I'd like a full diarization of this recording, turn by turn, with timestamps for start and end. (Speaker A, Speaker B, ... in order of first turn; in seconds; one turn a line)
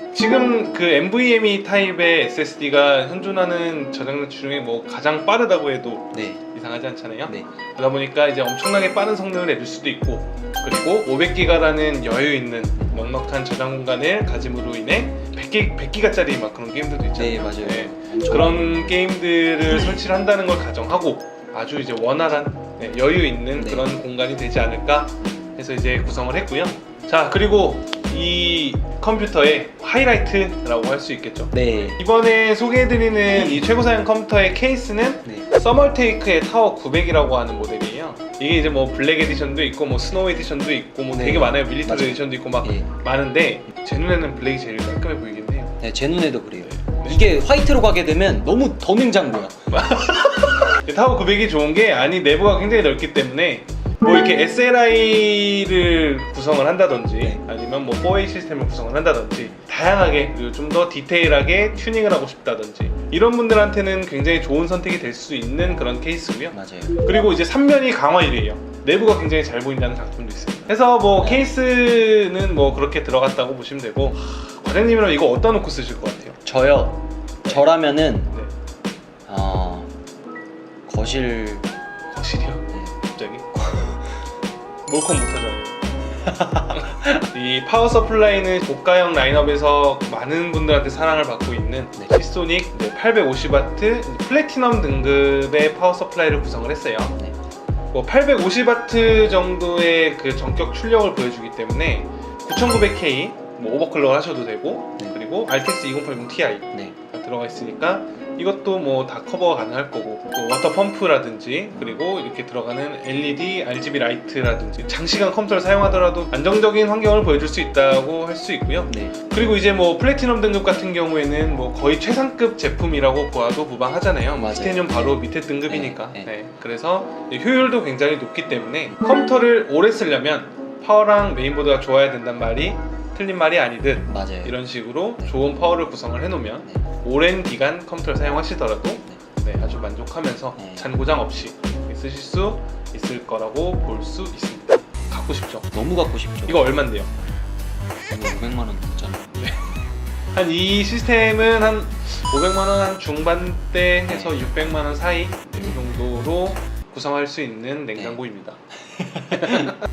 Speaker A: 0.1-45.8
Speaker B: 6.1-6.4
Speaker B: 17.1-19.0
Speaker B: 23.6-23.9
Speaker B: 25.2-25.6
Speaker B: 31.5-31.9
Speaker B: 33.3-33.6
Speaker B: 41.1-42.9
Speaker B: 45.8-49.6
Speaker A: 46.6-47.4
Speaker A: 49.7-76.4
Speaker B: 66.5-67.0
Speaker B: 71.2-71.5
Speaker B: 76.4-78.3
Speaker B: 79.3-79.9
Speaker B: 80.9-81.7
Speaker A: 82.1-83.9
Speaker A: 84.9-85.9
Speaker B: 86.2-86.8
Speaker A: 86.7-97.2
Speaker A: 97.9-145.7
Speaker B: 118.9-119.1
Speaker B: 124.3-126.3
Speaker B: 134.1-134.6
Speaker B: 140.6-141.0
Speaker B: 145.7-146.8
Speaker A: 146.5-147.1
Speaker B: 148.1-149.6
Speaker A: 149.4-149.6
Speaker A: 150.3-158.6
Speaker B: 154.1-154.3
Speaker B: 158.9-159.7
Speaker A: 159.3-159.8